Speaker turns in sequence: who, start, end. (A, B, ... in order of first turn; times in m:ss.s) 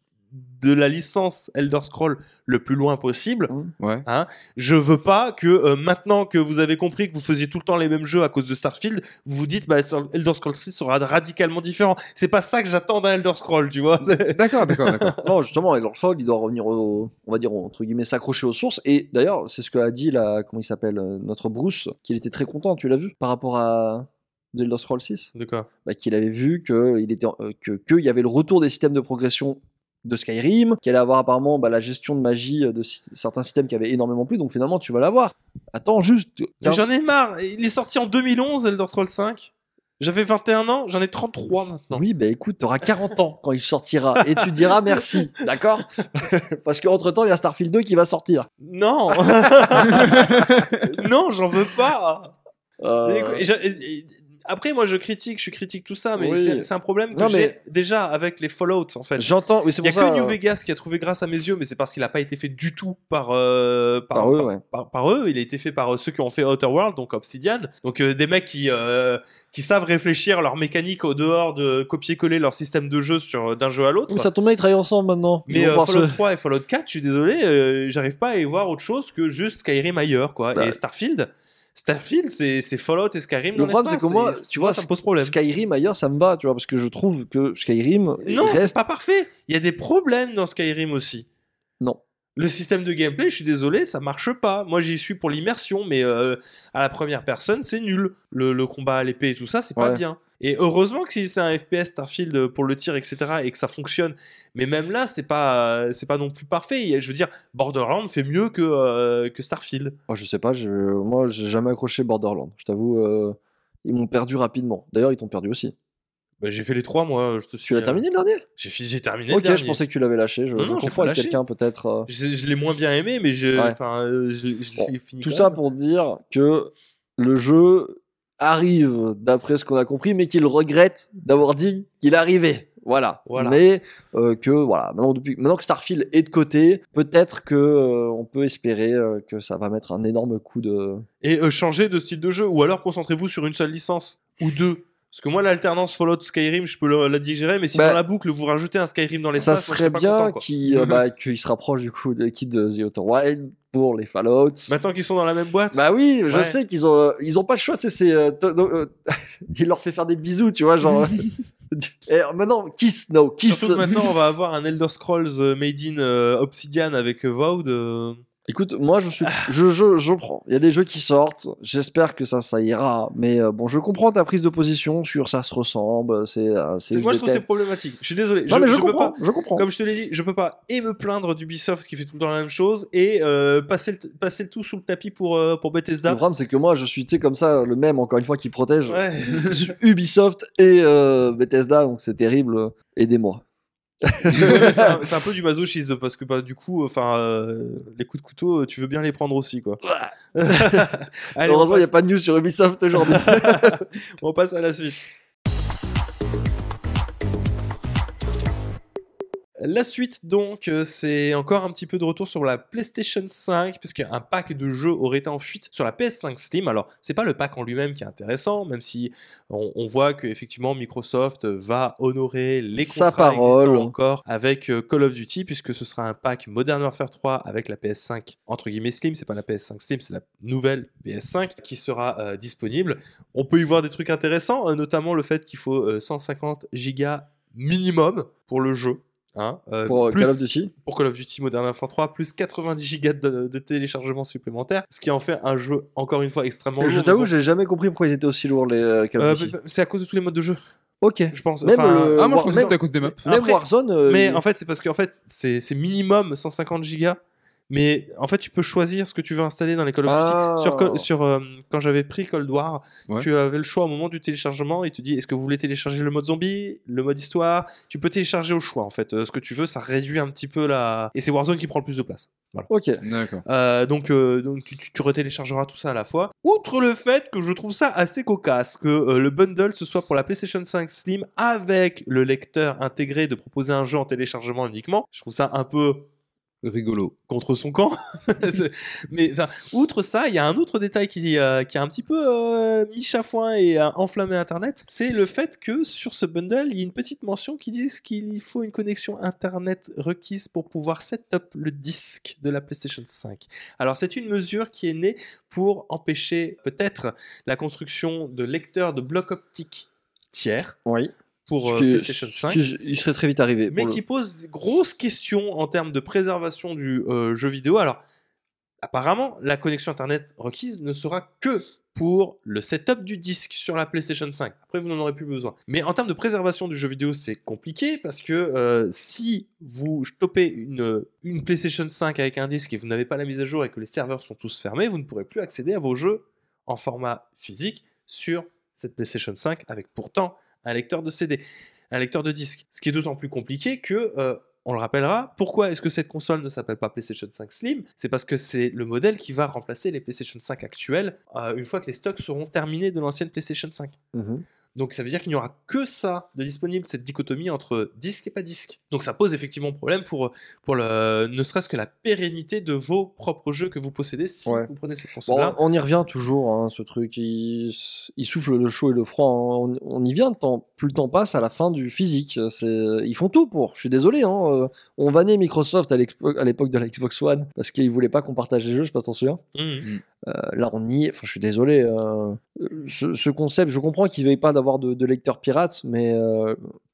0:00.3-0:03.5 A
0:03.8-0:04.1 B
0:04.0-0:15.2 A
0:14.2-0:15.2 B
0:15.2-0:25.3 C
0:25.4-0:25.7 A
0:25.8-0:36.8 C
0:36.6-0:42.0 A
0:41.9-0:48.5 C
0:44.3-0:45.2 A
0:48.6-0:52.4 A
0:49.9-0:50.4 C
0:52.8-0:53.5 C
0:53.0-0:59.3 A
0:56.2-0:57.5 C
0:59.2-1:00.4 C
0:59.8-1:14.3 A
1:04.1-1:04.6 C
1:14.1-1:16.2 C
1:15.5-1:25.4 A
1:23.6-1:28.8 C
1:28.2-1:31.3 A
1:32.4-1:50.0 A
1:39.8-1:40.0 C
1:50.1-1:55.7 C
1:56.4-1:58.0 A
1:57.6-1:58.4 C
1:58.6-1:59.8 A
1:59.3-2:02.1 C
2:00.6-2:01.4 A
2:02.1-2:05.6 A
2:04.8-2:21.0 C
2:13.3-2:13.6 A
2:21.2-2:30.9 A
2:27.7-2:28.0 C
2:29.4-2:34.8 C
2:34.7-2:36.6 A
2:35.7-2:44.1 C
2:43.5-2:48.2 A
2:48.5-2:57.4 C
2:56.9-3:06.2 A
2:58.5-2:59.6 C
3:06.1-3:13.4 C
3:08.9-3:09.6 A
3:14.0-3:15.0 C
3:14.3-3:21.9 A
3:20.5-3:20.9 C
3:21.4-3:23.8 C
3:23.0-3:25.0 A
3:29.6-4:07.3 A
3:42.8-3:43.9 C
3:59.9-4:00.7 C
4:06.8-4:09.5 C
4:09.2-4:10.7 A
4:11.0-4:14.4 C
4:11.3-4:12.7 A
4:12.2-4:13.2 B
4:13.2-4:17.2 A
4:17.7-4:32.7 A
4:20.1-4:21.1 C
4:32.7-4:33.0 C
4:33.0-4:33.4 B
4:33.5-4:46.1 A
4:46.6-4:47.1 B
4:47.3-5:10.8 A
5:10.9-5:14.0 C
5:11.5-5:12.6 A
5:13.7-5:18.0 A
5:18.8-5:54.0 A
5:54.1-5:54.4 C
5:54.8-6:05.6 A
6:05.3-6:19.4 C
6:19.6-6:19.9 A
6:20.2-6:26.6 C